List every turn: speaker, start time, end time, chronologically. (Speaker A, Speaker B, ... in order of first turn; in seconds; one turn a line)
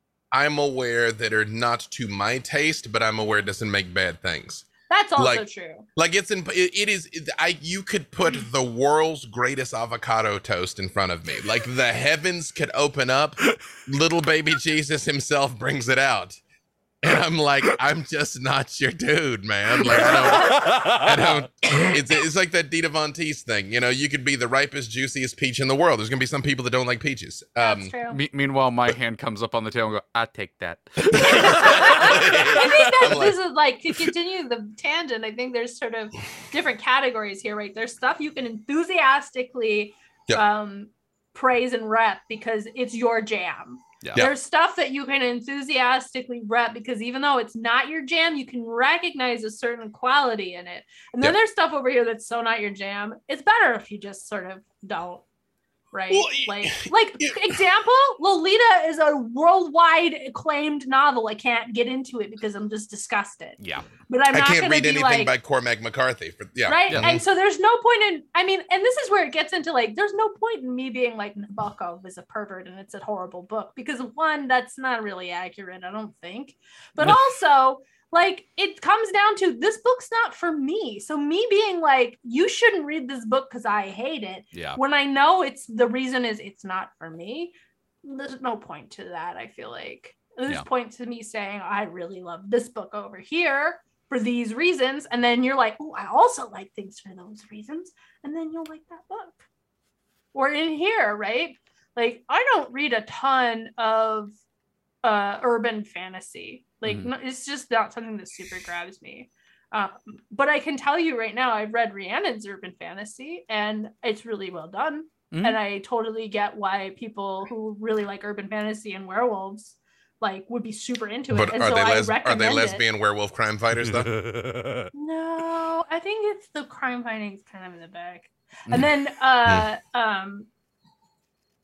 Speaker A: 0.3-16.4
Speaker B: 4.9-5.9
Speaker A: 17.0-27.9
Speaker B: 19.8-20.5
Speaker C: 19.9-21.7
Speaker B: 27.6-28.2
Speaker C: 28.1-33.2
Speaker A: 31.1-33.4
Speaker B: 31.2-55.2
Speaker C: 44.0-44.3
Speaker B: 55.9-65.3
Speaker A: 56.1-57.5
Speaker C: 63.6-63.9
Speaker A: 64.3-67.2
Speaker B: 66.7-99.4
Speaker C: 84.5-84.8
Speaker B: 100.3-104.3
Speaker B: 105.0-122.8
Speaker C: 115.3-115.6
Speaker A: 121.3-124.1
Speaker C: 123.8-124.9
Speaker B: 124.9-130.5